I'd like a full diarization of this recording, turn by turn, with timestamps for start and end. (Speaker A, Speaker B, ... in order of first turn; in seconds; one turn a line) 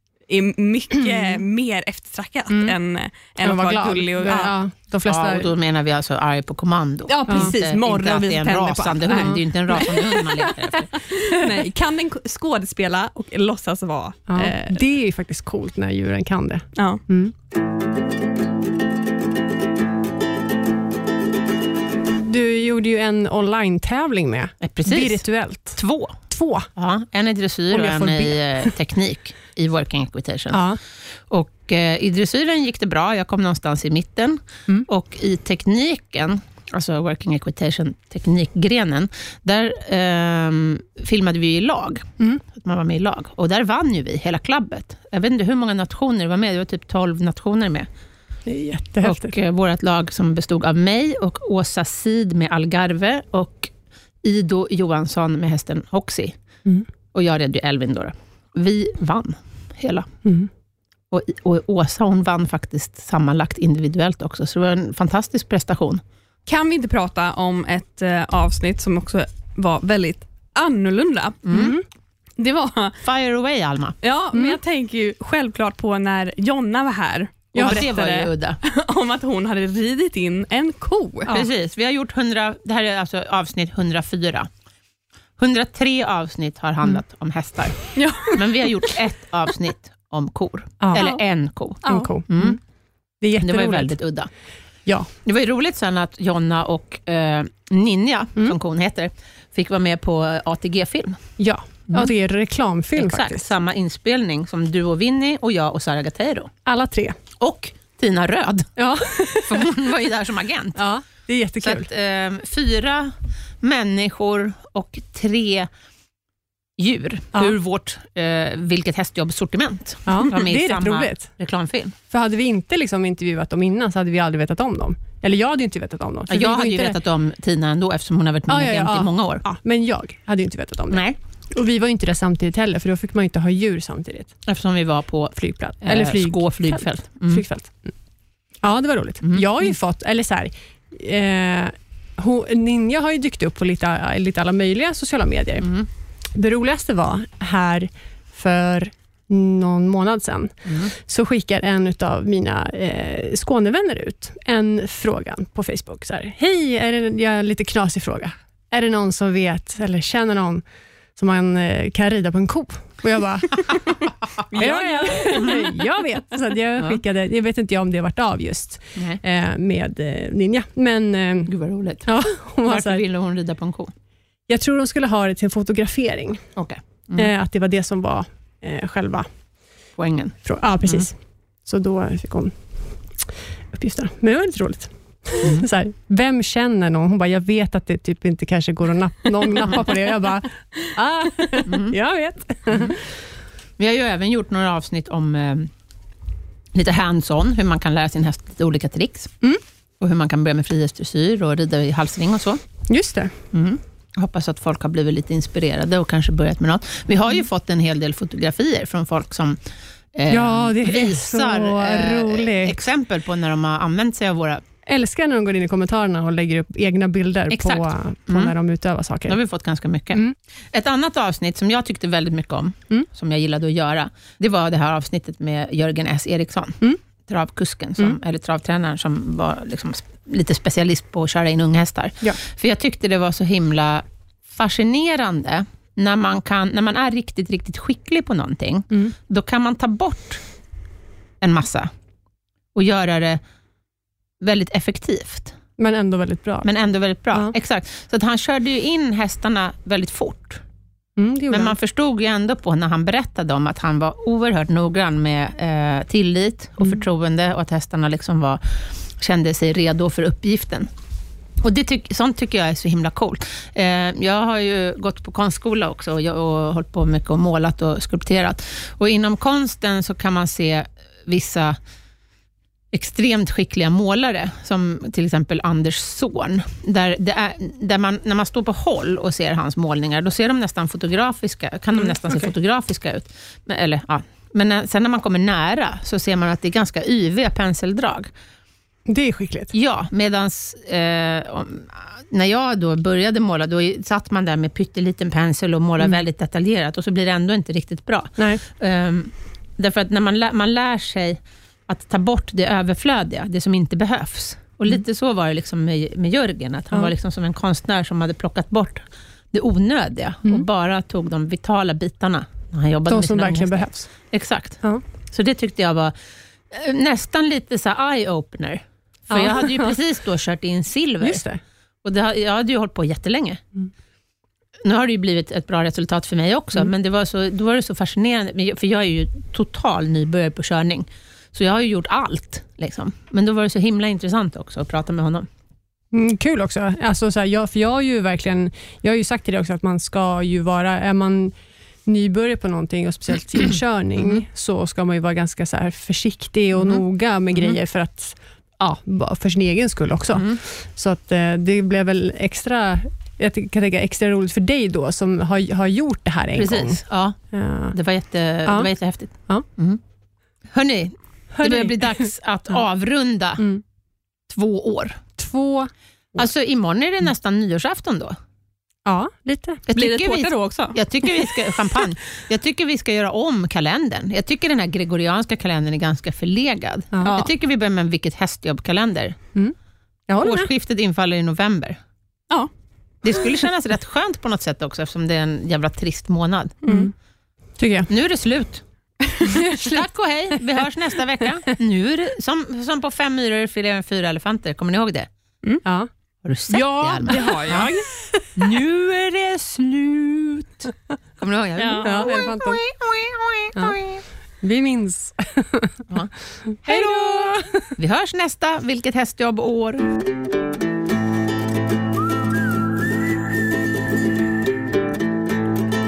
Speaker A: 0.3-4.6
Speaker B: 1.1-1.4
Speaker B: 3.4-5.5
Speaker C: 5.0-10.9
Speaker A: 7.1-14.8
Speaker B: 9.1-9.4
Speaker B: 14.3-17.3
Speaker A: 16.8-17.0
Speaker B: 22.2-26.7
Speaker C: 24.6-26.2
Speaker C: 26.8-30.6
Speaker B: 27.7-28.7
Speaker B: 30.5-30.8
Speaker C: 31.3-47.9
Speaker B: 48.5-49.3
Speaker C: 49.0-53.7
Speaker C: 54.2-56.3
Speaker C: 57.1-60.1
Speaker B: 60.2-60.5
Speaker C: 61.1-66.0
Speaker A: 66.5-71.5
Speaker C: 71.5-71.8
Speaker B: 71.5-71.8
Speaker A: 72.4-73.0
Speaker C: 73.0-73.9
Speaker A: 74.0-81.4
Speaker B: 74.3-74.6
Speaker B: 77.5-77.8
Speaker C: 77.6-78.6
Speaker C: 81.3-84.5
Speaker C: 85.4-92.6
Speaker A: 88.0-88.3
Speaker B: 90.8-91.1
Speaker A: 90.9-91.2
Speaker A: 91.8-92.1
Speaker B: 91.8-92.6
Speaker B: 93.2-93.9
Speaker C: 93.4-94.3
Speaker C: 95.2-101.2
Speaker B: 101.4-103.5
Speaker C: 103.0-106.5
Speaker B: 106.7-107.2
Speaker C: 107.4-108.7
Speaker B: 108.8-109.7
Speaker C: 109.3-110.8
Speaker B: 110.8-111.9
Speaker C: 111.6-115.7
Speaker C: 116.8-121.9
Speaker B: 120.1-121.3
Speaker B: 122.1-127.0
Speaker C: 126.3-129.4
Speaker B: 128.5-134.3
Speaker C: 130.9-131.2
Speaker C: 134.4-137.4
Speaker B: 135.3-137.8
Speaker B: 138.6-145.7
Speaker C: 139.2-139.5
Speaker C: 145.6-145.9
Speaker B: 146.3-160.6
Speaker C: 150.7-150.9
Speaker B: 161.2-171.5
Speaker A: 164.5-165.7
Speaker C: 165.3-165.6
Speaker C: 171.5-173.9
Speaker B: 172.0-173.0
Speaker B: 174.5-176.4
Speaker C: 176.6-177.3
Speaker B: 177.2-179.3
Speaker C: 180.0-181.1
Speaker B: 180.4-181.1
Speaker B: 181.7-182.5
Speaker B: 183.7-193.0
Speaker C: 191.7-192.0
Speaker C: 192.7-192.9
Speaker C: 193.8-195.7
Speaker C: 196.7-199.3
Speaker C: 200.0-202.6
Speaker B: 202.9-203.3
Speaker C: 203.5-209.6
Speaker C: 210.1-214.6
Speaker B: 210.3-212.8
Speaker B: 214.9-219.4
Speaker C: 217.5-218.5
Speaker C: 219.3-240.4
Speaker C: 241.4-241.9
Speaker C: 242.7-243.4
Speaker C: 244.4-245.5
Speaker B: 245.8-246.7
Speaker C: 246.6-250.6
Speaker B: 251.2-251.8
Speaker C: 251.5-260.9
Speaker C: 261.6-271.8
Speaker C: 272.9-288.3
Speaker B: 289.1-289.7
Speaker C: 289.7-316.1
Speaker B: 298.4-298.6
Speaker B: 313.1-314.1
Speaker C: 316.7-321.4
Speaker B: 319.3-319.9
Speaker B: 321.2-321.6
Speaker C: 322.0-323.6
Speaker C: 324.8-335.5
Speaker B: 336.1-341.5
Speaker B: 342.1-357.0
Speaker C: 346.8-347.0
Speaker C: 350.3-350.6
Speaker C: 356.5-357.4
Speaker B: 357.5-357.9
Speaker C: 357.9-360.0
Speaker C: 360.7-363.6
Speaker B: 361.6-362.3
Speaker C: 364.5-365.2
Speaker B: 365.4-366.4
Speaker C: 366.4-368.4
Speaker B: 369.0-369.8
Speaker C: 369.9-379.4
Speaker A: 369.9-370.9
Speaker B: 377.1-377.4
Speaker B: 380.3-380.7
Speaker C: 380.4-382.0
Speaker C: 383.2-386.8
Speaker A: 386.8-387.1
Speaker B: 386.9-387.1
Speaker B: 387.8-388.1
Speaker C: 388.1-388.8
Speaker A: 389.2-389.5
Speaker B: 389.5-390.0
Speaker C: 389.6-395.3
Speaker C: 396.4-397.9
Speaker B: 396.7-397.6
Speaker A: 396.7-398.1
Speaker C: 398.6-404.2
Speaker A: 401.8-402.3
Speaker B: 402.0-402.8
Speaker B: 404.6-405.9
Speaker B: 406.8-407.8
Speaker C: 406.8-410.1